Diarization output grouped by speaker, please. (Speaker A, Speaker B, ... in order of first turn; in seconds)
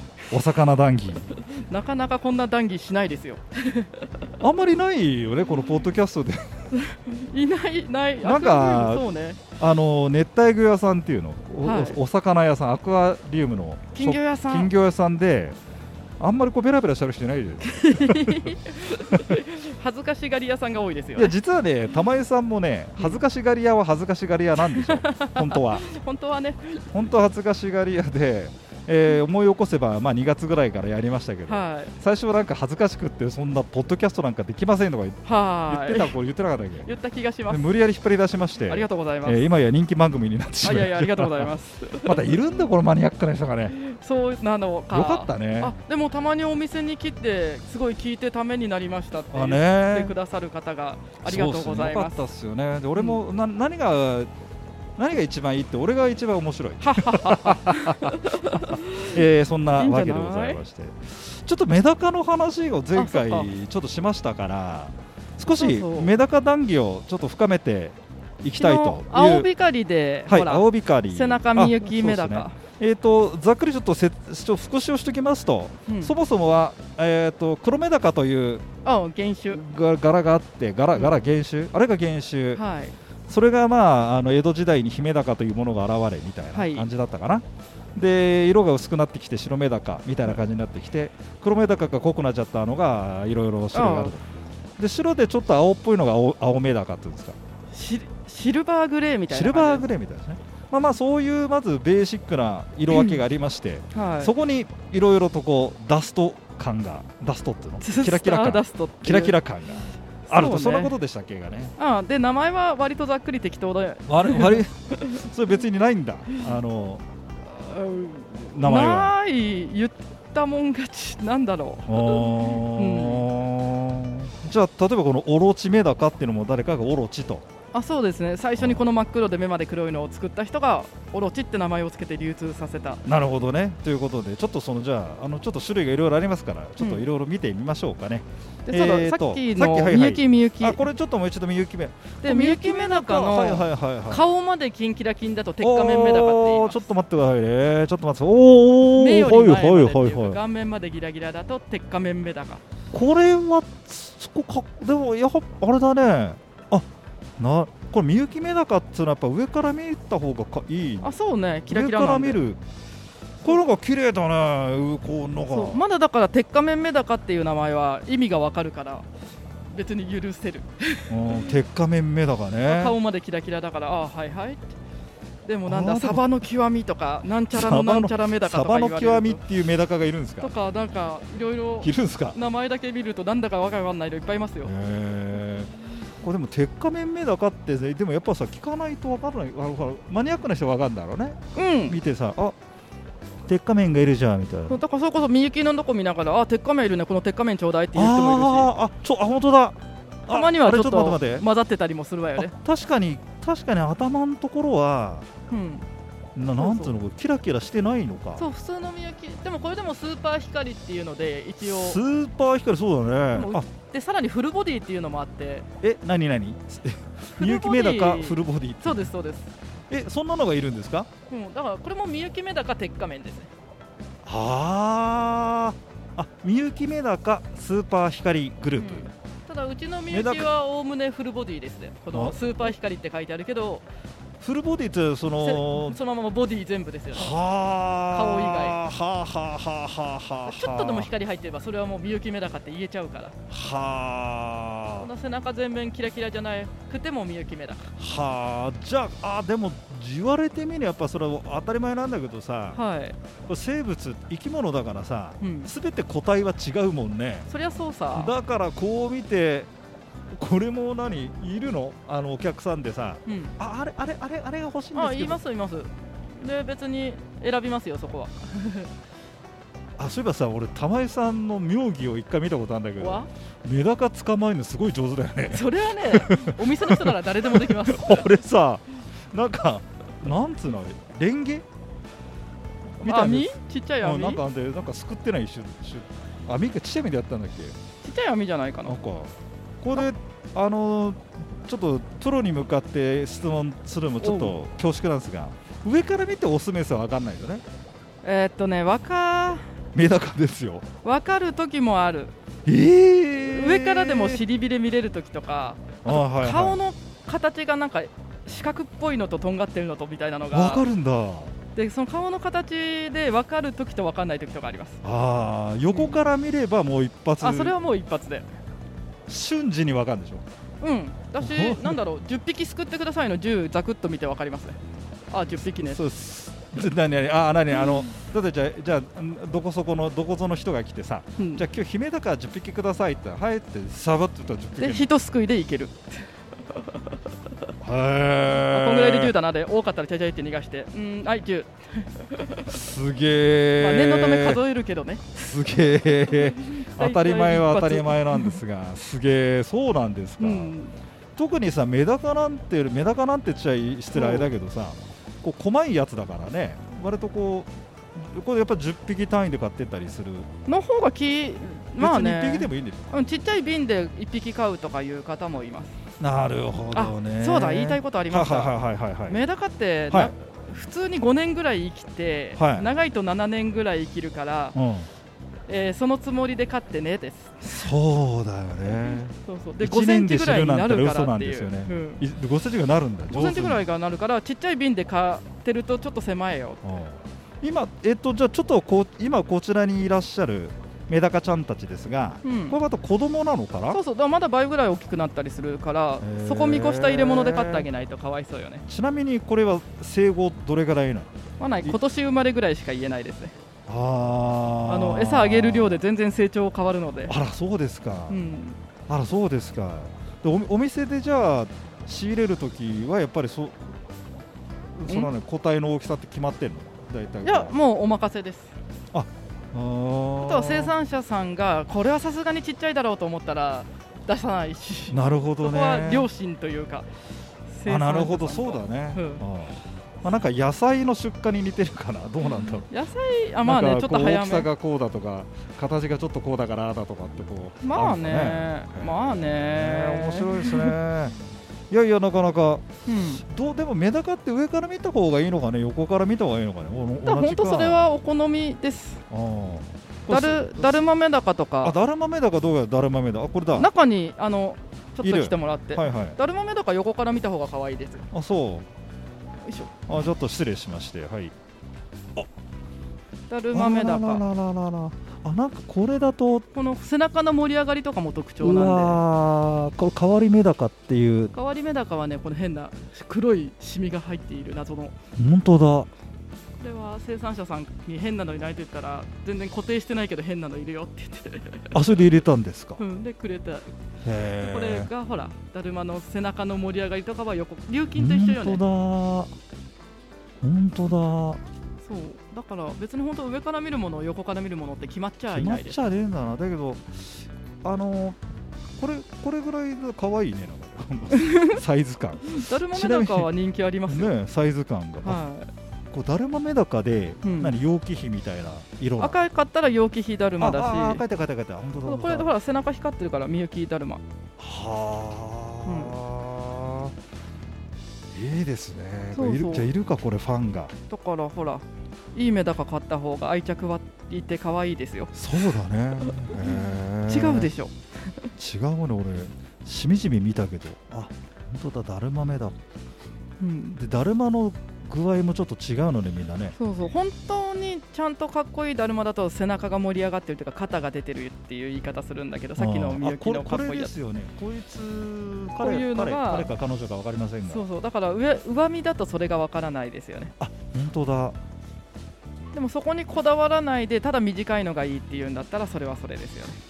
Speaker A: 0.3-1.3, 4.4-6.6, 8.2-9.1, 9.6-15.6, 16.2-18.5, 19.1-19.4, 21.1-25.8, 26.9-36.9, 37.5-43.8, 44.9-45.7, 49.3-50.1, 51.2-54.3, 55.0-69.5, 70.3-78.6, 79.5-82.6, 83.3-87.4, 87.9-94.2, 94.8-97.3, 99.3-111.7, 114.1-117.0, 117.8-119.1, 121.9-127.4, 128.6-128.8, 133.0-144.3, 145.6-150.4, 152.9-156.9, 157.4-161.1, 161.7-162.6, 163.4-165.8, 171.1-173.0, 175.7-176.2, 177.5-180.5, 181.8-182.4, 184.6-192.5, 193.5-194.8, 197.9-201.4, 202.4-205.3, 206.3-208.4, 211.6-213.7, 215.8-219.1, 219.9-221.1, 224.2-229.1, 230.1-230.5, 232.1-232.7, 234.4-236.0, 237.1-241.1, 243.5-245.1, 248.0-252.8, 253.4-257.5, 258.1-259.7, 260.3-265.4, 270.0-281.6, 283.0-287.8, 288.9-297.6, 299.9-300.9, 302.6-304.4, 306.0-306.8, 310.5-311.5, 315.0-317.8, 319.3-320.4, 321.4-322.0, 325.6-335.1, 337.8-339.3, 342.7-344.6, 345.3-350.7, 351.4-360.5, 362.0-363.1, 366.2-369.4, 372.6-372.9, 374.7-375.1, 377.6-383.8, 386.8-394.0, 396.2-397.9, 398.9-402.0, 403.9-406.0, 407.3-408.4, 409.1-413.8, 414.9-417.7, 419.1-420.9, 425.1-426.3, 427.9-432.9, 433.6-441.4, 441.9-442.9, 443.4-448.1, 449.3-451.0, 451.8-453.9, 455.2-456.4, 458.3-458.9, 460.1-461.5, 463.7-466.6, 468.6-471.5, 475.4-476.1, 481.9-483.0, 484.2-485.1, 488.1-489.5, 490.6-491.6, 495.5-497.3, 497.8-498.4, 499.0-503.5, 504.1-505.4, 506.1-509.4, 510.6-512.5, 514.6-517.1, 518.3-520.9, 525.3-527.7, 528.6-532.7, 534.0-536.7, 542.8-547.8, 550.6-551.6
Speaker B: 1.4-4.1, 6.7-9.4, 11.6-12.0, 13.9-14.7, 17.6-21.3, 24.7-26.9, 31.5-31.9, 35.2-36.1, 36.8-37.7, 38.7-39.4, 40.6-42.4, 43.7-52.2, 52.9-53.2, 56.8-59.2, 59.7-60.6, 62.9-63.5, 65.6-66.2, 68.6-72.6, 75.9-76.1, 78.8-79.6, 82.5-83.0, 86.5-86.9, 93.7-94.1, 97.7-99.8, 102.9-103.2, 103.9-104.3, 107.8-109.4, 110.3-110.9, 111.8-115.2, 117.6-123.3, 127.7-133.0, 136.8-137.0, 138.7-140.8, 142.2-146.8, 148.9-152.6, 161.0-162.4, 165.5-169.1, 169.7-171.5, 172.7-174.7, 175.4-179.4, 180.4-184.7, 191.5-192.0, 194.7-198.7, 200.3-202.5, 205.5-205.8, 206.6-206.9, 208.4-212.0, 213.3-215.7, 217.4-219.5, 221.3-223.5, 228.8-233.8, 235.4-237.4, 238.1-238.8, 240.4-243.3, 245.0-247.9, 252.7-253.2, 255.4-255.7, 257.5-258.3, 263.2-263.5, 264.9-268.9, 273.0-273.3, 275.5-278.3, 283.0-284.4, 288.0-289.0, 294.2-294.5, 298.2-299.6, 301.0-302.3, 303.5-310.9, 311.7-315.0, 315.9-316.2, 317.4-318.5, 320.8-324.8, 325.3-326.0, 327.7-328.1, 331.4-331.6, 334.8-337.2, 338.7-342.9, 343.8-345.4, 346.3-348.6, 350.4-351.0, 354.1-354.5, 360.6-365.9, 366.9-368.7, 369.3-374.8, 375.7-377.9, 378.8-382.2, 383.3-386.8, 392.4-392.8, 393.9-398.8, 401.6-403.5, 404.9-407.3, 408.3-408.8, 417.4-418.7, 420.4-427.1, 427.7-429.4, 432.8-434.7, 437.8-440.9, 443.1-443.4, 447.2-449.2, 450.3-451.9, 453.8-458.2, 459.6-460.0, 463.5-464.4, 466.7-469.2, 471.5-475.1, 476.8-482.1, 483.0-483.9, 484.6-488.8, 492.0-496.0, 501.3-501.8, 502.4-504.3, 505.2-505.7, 507.4-507.8, 509.2-511.2, 512.0-514.2, 515.9-516.1, 519.3-519.9, 521.1-521.8, 522.3-525.3, 526.5-527.9, 533.6-534.0, 536.8-544.1, 545.8-546.7, 547.7-550.5, 552.7-556.8